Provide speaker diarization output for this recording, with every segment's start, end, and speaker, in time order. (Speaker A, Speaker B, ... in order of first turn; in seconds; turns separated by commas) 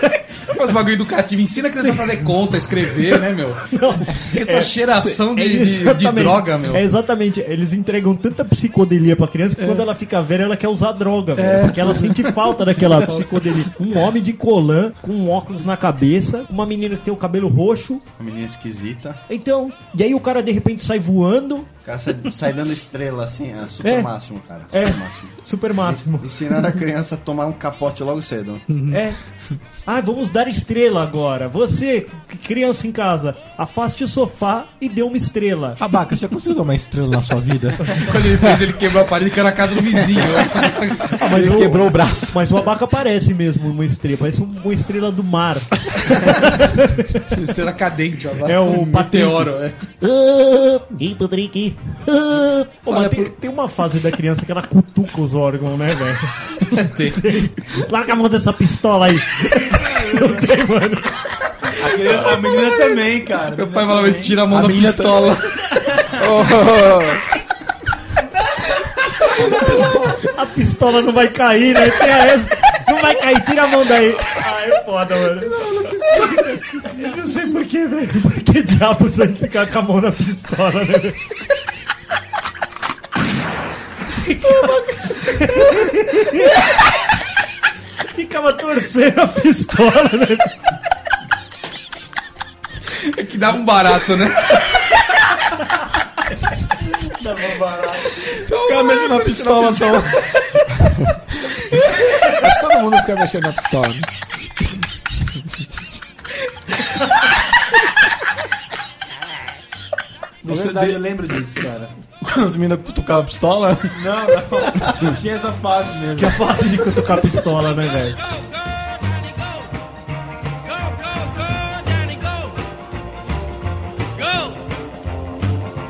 Speaker A: 0.5-6.8, Speaker B: 3.7-18.0, Speaker A: 9.6-9.9, Speaker A: 11.4-13.4, Speaker C: 18.2-19.2, Speaker B: 19.3-21.7, Speaker C: 21.8-28.6, Speaker B: 23.8-24.1, Speaker B: 24.7-26.8, Speaker A: 28.7-29.0, Speaker B: 28.9-29.2, Speaker B: 29.9-35.8, Speaker D: 35.8-38.0, Speaker A: 38.0-41.2, Speaker B: 41.1-47.3, Speaker D: 41.3-42.5, Speaker A: 47.3-49.8, Speaker B: 48.4-61.3, Speaker A: 52.9-53.3, Speaker A: 56.6-57.2, Speaker E: 61.8-64.4, Speaker A: 62.5-62.8, Speaker A: 63.5-65.7, Speaker D: 64.5-65.4, Speaker F: 66.2-67.2, Speaker D: 69.4-70.2, Speaker B: 69.5-75.6, Speaker B: 76.2-81.2, Speaker B: 84.1-86.7, Speaker B: 88.1-90.5, Speaker A: 93.0-94.7, Speaker E: 97.2-98.1, Speaker A: 98.4-100.0, Speaker D: 98.5-100.3, Speaker F: 102.2-104.1, Speaker E: 110.4-111.9, Speaker D: 110.5-111.0, Speaker D: 112.2-114.0, Speaker E: 113.9-116.5, Speaker B: 116.2-118.2